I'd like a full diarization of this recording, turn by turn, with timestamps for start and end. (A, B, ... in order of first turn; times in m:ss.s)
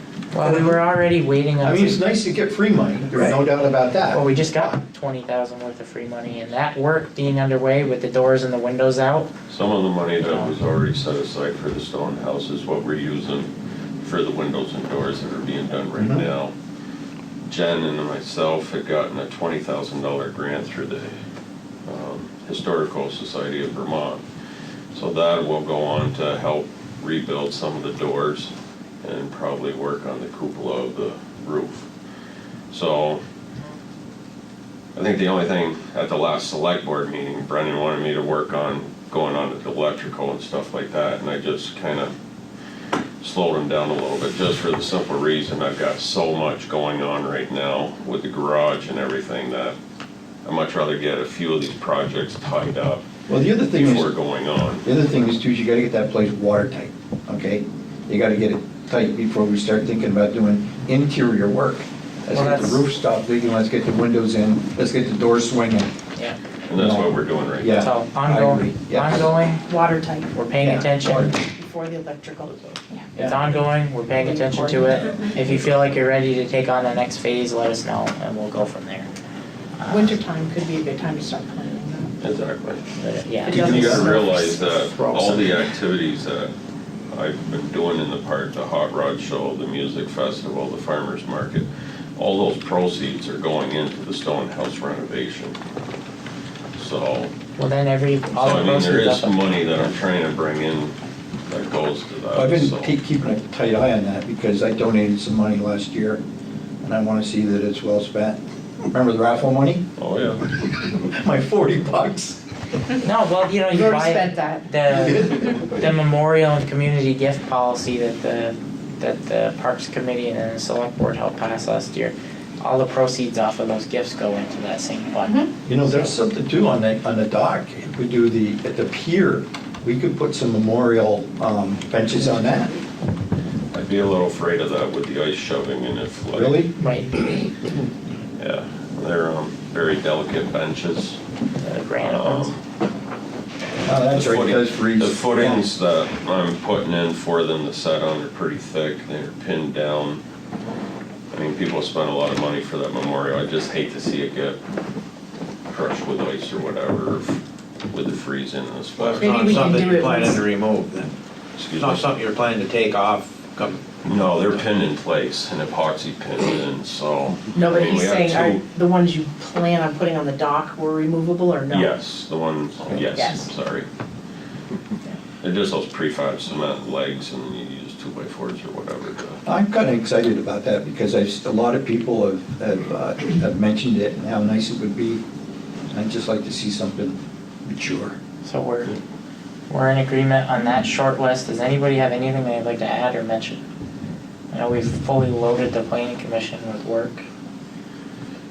0:00.3-0:02.0 A
0:01.6-0:04.7 B
0:04.0-0:09.3 A
0:09.5-0:13.5 C
0:10.2-0:10.5 A
0:14.0-0:16.5 C
0:16.0-0:16.3 B
0:17.4-0:21.1 C
0:21.9-0:24.2 C
0:24.9-0:31.9 C
0:32.7-0:33.2 C
0:34.9-0:42.1 C
0:43.2-0:49.8 C
0:50.4-0:53.0 C
0:53.3-0:54.1 B
0:53.7-0:54.8 C
0:54.8-1:05.9 B
1:02.3-1:02.8 A
1:06.2-1:06.4 A
1:06.7-1:07.8 C
1:06.7-1:09.3 B
1:07.8-1:09.6 A
1:09.7-1:10.4 D
1:10.3-1:11.4 A
1:10.6-1:11.4 B
1:11.4-1:13.1 D
1:13.2-1:19.1 A
1:14.1-1:15.4 D
1:19.8-1:20.2 A
1:19.9-1:22.1 D
1:22.2-1:22.9 C
1:23.0-1:24.2 A
1:23.4-1:24.6 D
1:23.5-1:25.6 B
1:23.7-1:26.5 C
1:27.1-1:35.6 C
1:36.8-1:37.3 C
1:37.6-1:39.9 A
1:38.4-1:41.0 C
1:41.5-1:43.0 C
1:42.3-1:46.2 B
1:46.8-1:48.4 B
1:48.9-1:49.9 B
1:50.0-1:50.5 C
1:50.6-1:52.4 B
1:53.0-2:06.1 A
1:53.7-1:55.1 D
1:55.0-1:55.7 B
2:05.2-2:05.5 D
2:05.7-2:12.8 B
2:13.7-2:16.7 C
2:16.3-2:16.8 B
2:16.8-2:17.3 A
2:18.4-2:21.2 C
2:21.6-2:22.5 A
2:22.0-2:22.6 C
2:23.8-2:25.6 B
2:24.1-2:30.2 C
2:31.3-2:34.6 C
2:35.7-2:39.2 C
2:39.0-2:41.1 E
2:39.2-2:40.4 D
2:41.6-2:42.0 C
2:41.8-2:44.0 E
2:44.0-2:48.6 C
2:47.5-2:51.9 D
2:51.7-2:53.9 C
2:53.1-2:53.5 D
2:55.4-2:59.4 C
2:59.5-3:05.2 B
3:05.9-3:08.2 B
3:08.4-3:09.0 A
3:09.7-3:13.6 A
3:14.5-3:17.2 A